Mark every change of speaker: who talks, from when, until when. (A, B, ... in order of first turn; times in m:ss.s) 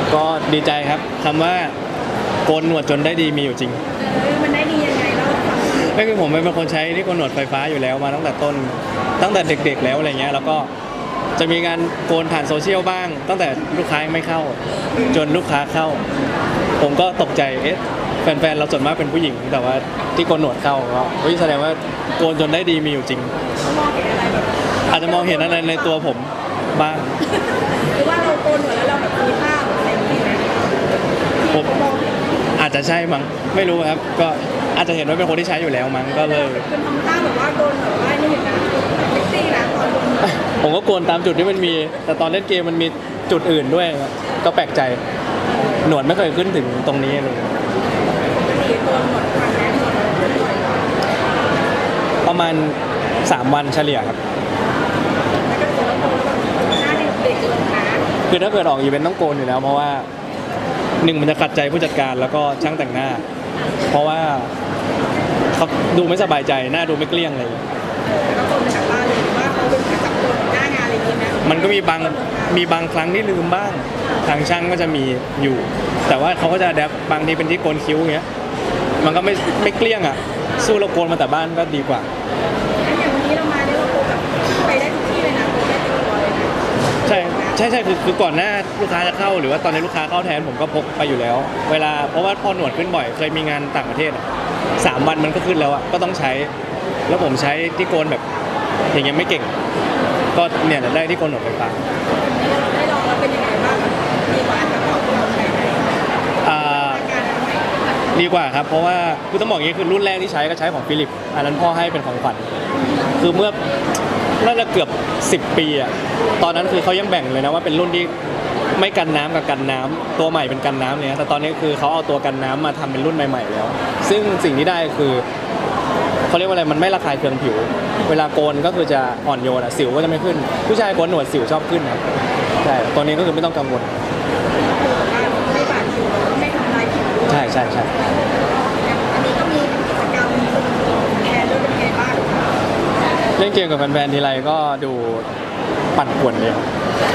0:00.1-0:01.7 A
0:02.5-0:03.8 A
0:04.0-0:05.8 B
0:05.8-0:10.7 A
0:11.4-0:14.6 A
0:15.1-0:16.0 A
0:16.8-0:23.3 A
0:23.6-0:26.0 B
0:24.9-0:27.1 A
0:28.0-0:30.5 B
0:31.4-0:32.3 B
0:32.6-0:36.7 A
0:36.1-0:40.4 B
0:40.2-0:45.0 A
0:45.8-0:47.6 A
0:48.3-0:50.9 B
0:52.2-0:54.2 A
0:55.5-0:58.1 B
0:58.3-1:00.1 A
1:01.0-1:03.2 A
1:03.9-1:04.5 A
1:05.5-1:07.6 A
1:08.1-1:12.7 B
1:11.4-1:18.2 A
1:19.0-1:22.1 A
1:20.5-1:20.8 B
1:22.8-1:27.6 B
1:27.0-1:34.3 A
1:34.8-1:36.5 A
1:37.1-1:38.2 A
1:38.9-1:39.5 A
1:40.3-1:41.8 A
1:42.4-1:45.9 B
1:46.4-1:47.0 A
1:46.5-1:47.7 B
1:48.1-1:52.5 A
1:53.2-1:53.6 A
1:54.4-1:58.1 A
1:58.8-2:05.2 A
2:06.3-2:12.0 A
2:12.6-2:13.9 A
2:14.6-2:18.0 B
2:17.3-2:17.9 A
2:18.7-2:22.5 B
2:23.4-2:25.3 A
2:26.0-2:26.7 A